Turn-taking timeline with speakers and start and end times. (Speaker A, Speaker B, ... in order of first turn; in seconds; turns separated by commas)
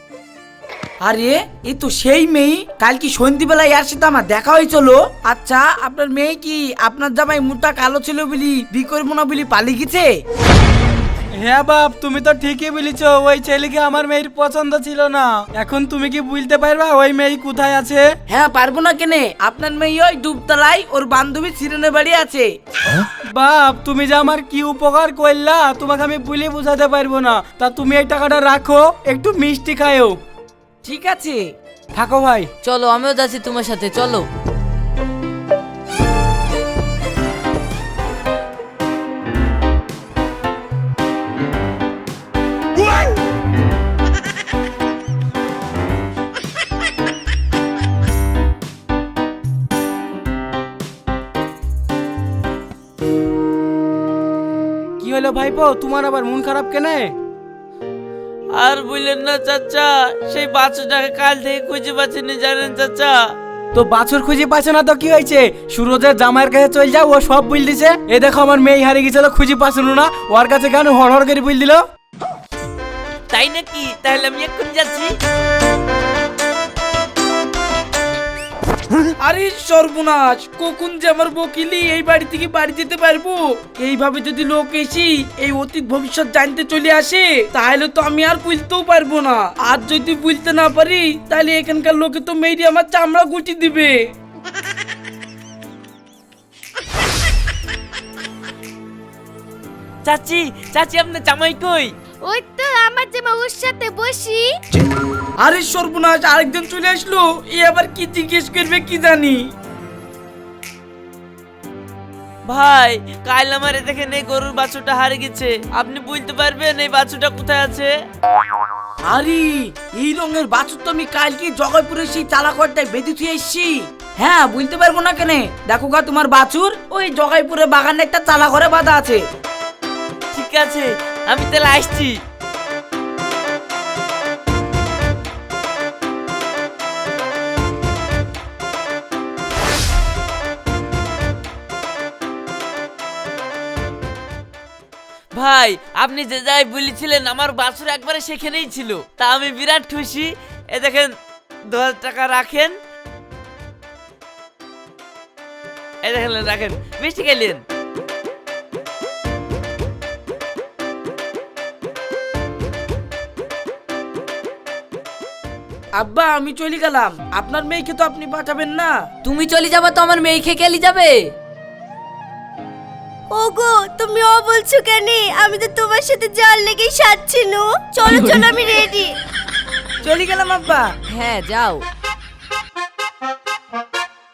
Speaker A: 1.0-10.2, Speaker B: 11.3-18.1, Speaker A: 18.3-22.5, Speaker B: 23.3-30.2, Speaker A: 30.8-31.5, Speaker B: 31.9-32.5, Speaker C: 32.6-34.3, Speaker B: 55.0-57.1, Speaker D: 58.5-63.2, Speaker B: 63.7-71.8, Speaker D: 73.3-75.1, Speaker A: 79.2-94.0, Speaker D: 100.0-101.9, Speaker E: 102.2-104.5, Speaker A: 105.4-109.4, Speaker D: 112.5-117.9, Speaker A: 119.1-129.2, Speaker D: 130.3-132.2, Speaker D: 145.3-151.1, Speaker D: 151.7-152.7, Speaker D: 156.0-157.6, Speaker A: 165.9-168.9, Speaker C: 169.2-171.2, Speaker F: 173.3-179.2, Speaker C: 178.1-178.5, Speaker A: 180.0-180.8, Speaker C: 181.1-181.8